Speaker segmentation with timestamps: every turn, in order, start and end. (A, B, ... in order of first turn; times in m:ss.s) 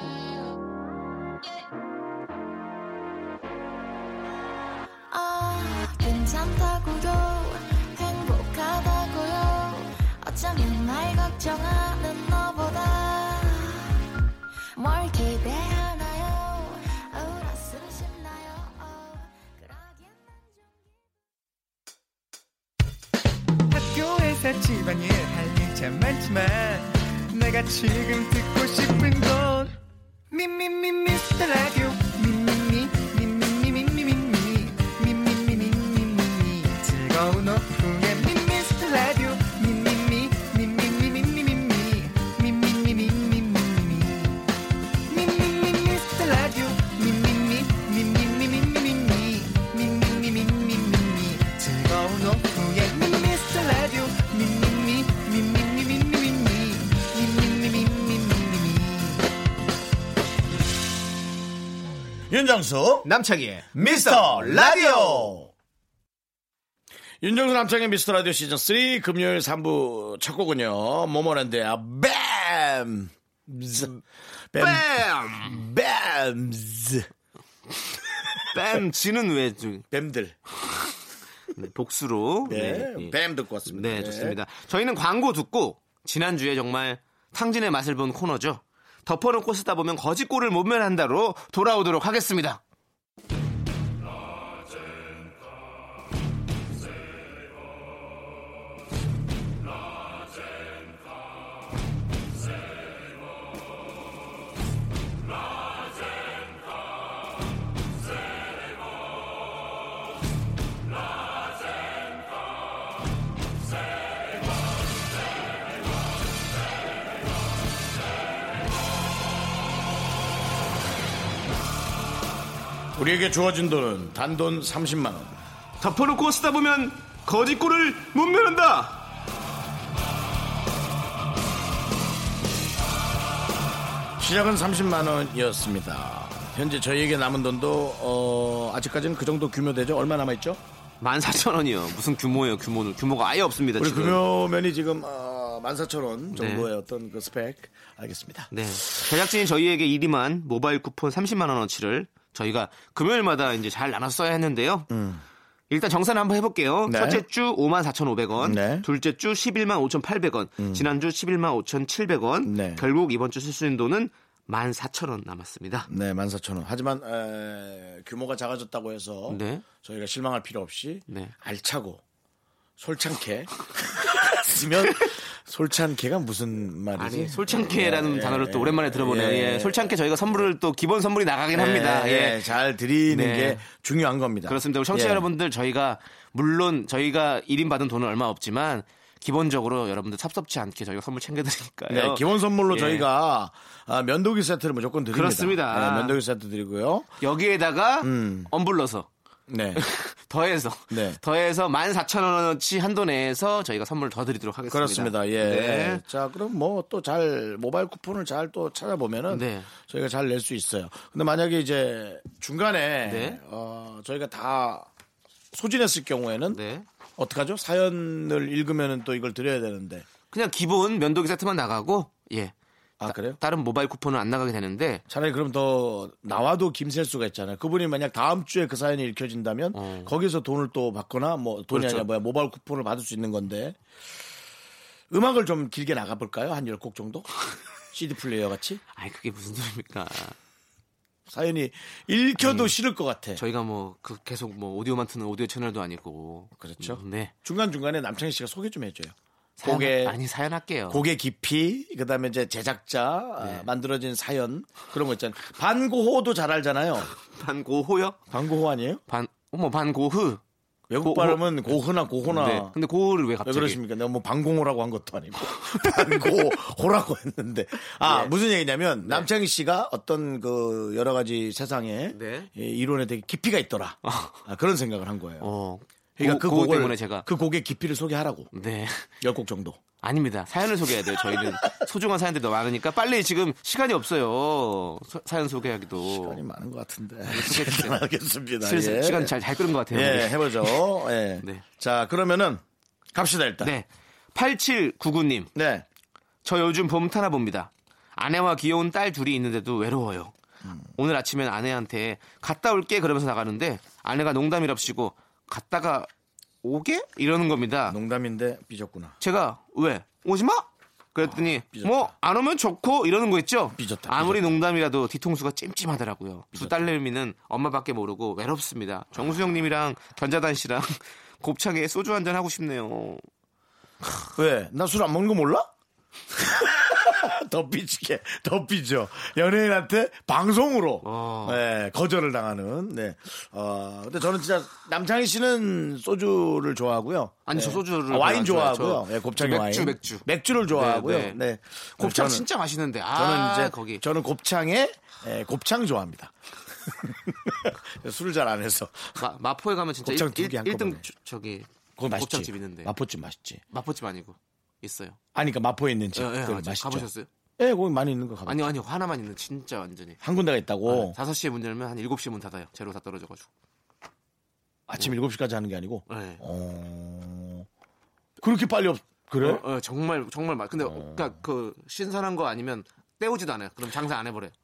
0:05.1-0:14.0 A
0:14.8-0:20.2 A
0:23.7-0:29.8 B
0:30.3-0:44.4 B
0:45.1-0:59.2 B
1:02.3-1:03.1 C
1:03.0-1:05.4 D
1:03.7-1:05.5 C
1:07.2-1:14.0 C
1:14.5-1:17.1 C
1:14.6-1:15.6 D
1:18.5-1:19.8 D
1:19.9-1:20.4 C
1:21.5-1:23.1 D
1:22.4-1:24.4 C
1:23.7-1:32.6 D
2:03.0-2:05.4 C
2:05.8-2:09.0 D
2:14.2-2:20.6 C
2:21.0-2:24.2 D
2:23.8-2:29.1 C
2:26.3-2:26.7 D
2:28.5-2:34.9 D
2:34.9-2:35.2 C
2:35.7-2:45.9 D
2:36.9-2:37.2 C
2:38.4-2:38.8 C
2:40.6-2:40.8 C
2:42.4-2:42.8 C
2:45.9-2:52.0 C
2:49.3-2:49.6 D
2:51.1-2:51.3 D
2:52.8-3:00.0 C
2:57.0-3:02.4 D
3:01.5-3:05.2 C
3:03.1-3:03.6 D
3:04.5-3:13.1 D
3:11.9-3:17.1 C
3:15.1-3:16.2 D
3:17.2-3:19.1 D
3:18.0-3:18.5 C
3:19.5-3:19.8 C
3:19.7-3:26.0 D
3:20.9-3:21.2 C
3:24.7-3:34.9 C
3:29.3-3:29.7 D
3:33.0-3:33.4 D
3:35.5-3:36.6 C
3:36.5-3:36.8 D
3:37.2-3:40.0 C
3:40.3-3:45.0 D
3:43.0-3:43.4 C
3:45.1-3:53.8 C
3:49.7-3:50.1 D
3:51.7-3:52.1 D
3:55.1-3:57.3 C
3:57.9-3:58.8 C
3:58.9-4:00.4 D
4:01.3-4:03.4 C
4:02.4-4:02.7 D
4:03.3-4:07.3 D
4:06.6-4:10.2 C
4:09.6-4:11.0 D
4:10.9-4:17.1 C
4:13.4-4:13.7 D
4:17.2-4:18.2 D
4:18.3-4:19.0 C
4:19.1-4:20.4 D
4:20.9-4:22.7 C
4:21.0-4:21.5 D
4:22.3-4:23.8 D
4:23.4-4:35.5 C
4:25.6-4:26.3 D
4:28.0-4:28.3 D
4:32.1-4:32.5 D
4:34.0-4:34.4 D
4:35.4-4:37.2 D
4:36.2-4:38.5 C
4:38.5-4:39.1 D
4:39.2-4:39.8 C
4:40.0-4:46.4 D
4:41.2-4:41.7 C
4:46.0-4:52.6 C
4:47.3-4:48.0 D
4:48.6-4:50.9 D
4:53.1-4:53.7 C
4:53.6-4:55.5 D
4:55.5-4:55.8 C
4:56.4-5:00.3 D
5:01.0-5:06.1 D
5:06.6-5:08.0 D
5:07.9-5:09.2 C
5:09.2-5:23.2 D
5:11.2-5:12.1 C
5:13.7-5:14.6 C
5:16.5-5:16.9 C
5:24.4-5:25.7 C
5:26.4-5:42.5 C
5:31.0-5:31.6 D
5:37.5-5:41.4 D
5:42.0-5:44.0 D
5:43.1-5:46.3 C
5:46.9-5:49.2 C
5:49.2-5:52.9 D
5:50.0-5:51.0 C
5:52.0-5:53.6 C
5:53.7-5:55.2 D
5:55.3-5:57.1 C
5:56.1-5:57.3 D
5:57.6-5:58.6 C
5:58.4-6:00.2 D
6:00.2-6:01.2 C
6:00.8-6:03.5 D
6:04.9-6:07.7 C
6:06.1-6:06.4 D
6:08.4-6:09.6 C
6:09.4-6:14.5 D
6:10.8-6:11.3 C